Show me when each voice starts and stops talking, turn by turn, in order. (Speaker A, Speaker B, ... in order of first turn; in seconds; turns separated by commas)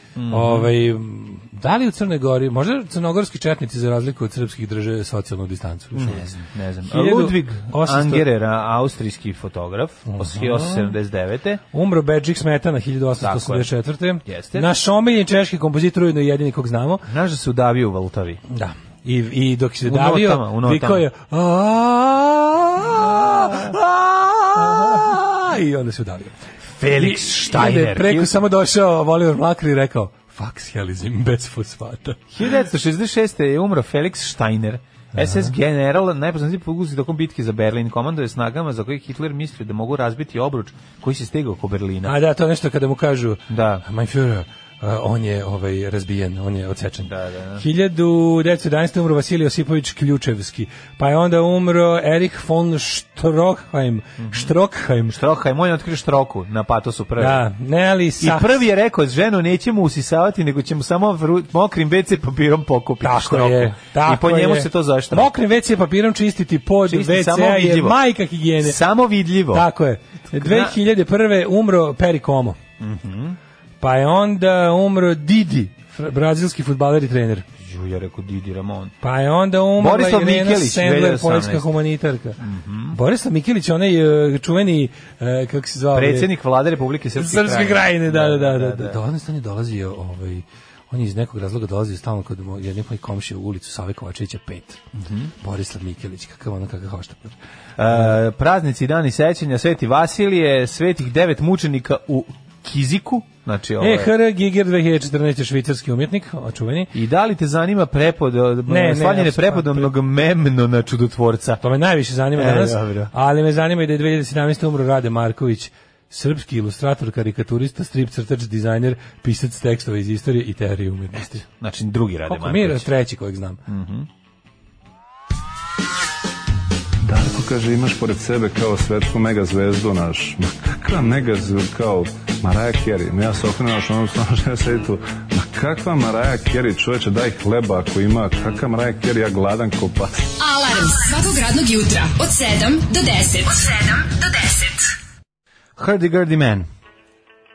Speaker A: 0.2-0.7, Speaker B: 0.3-6.3, Speaker A: 5.9-11.6, Speaker B: 6.9-8.3, Speaker B: 10.1-10.9, Speaker B: 11.7-17.1, Speaker A: 13.2-13.7, Speaker A: 14.2-14.7, Speaker A: 17.1-18.4, Speaker B: 18.5-26.3, Speaker A: 19.8-21.1, Speaker A: 23.3-23.7, Speaker A: 24.6-25.2, Speaker A: 26.8-28.3, Speaker B: 26.9-32.3, Speaker A: 32.3-42.1, Speaker B: 35.2-35.5, Speaker B: 42.0-55.2, Speaker A: 43.5-43.8, Speaker A: 47.0-47.6, Speaker A: 54.2-54.5, Speaker A: 55.1-57.4, Speaker B: 57.2-58.6, Speaker A: 58.2-65.3, Speaker B: 63.0-68.8, Speaker A: 66.9-68.0, Speaker A: 68.6-69.7, Speaker B: 69.5-72.6, Speaker A: 70.3-70.7, Speaker A: 72.8-73.4, Speaker B: 73.8-77.5, Speaker A: 77.6-78.9, Speaker B: 79.0-82.4, Speaker A: 79.8-81.7, Speaker A: 82.4-83.0, Speaker B: 82.9-86.3, Speaker A: 85.9-89.0, Speaker B: 87.2-94.8, Speaker A: 95.0-95.3, Speaker B: 95.4-97.4, Speaker A: 97.8-104.1, Speaker B: 97.9-98.1, Speaker B: 103.8-106.9, Speaker A: 106.9-111.6, Speaker B: 108.7-109.9, Speaker B: 111.6-121.5, Speaker A: 112.3-113.1, Speaker A: 121.1-122.9, Speaker B: 122.3-123.6, Speaker A: 123.7-124.1, Speaker C: 127.0-140.2, Speaker D: 140.4-144.9, Speaker A: 145.8-146.7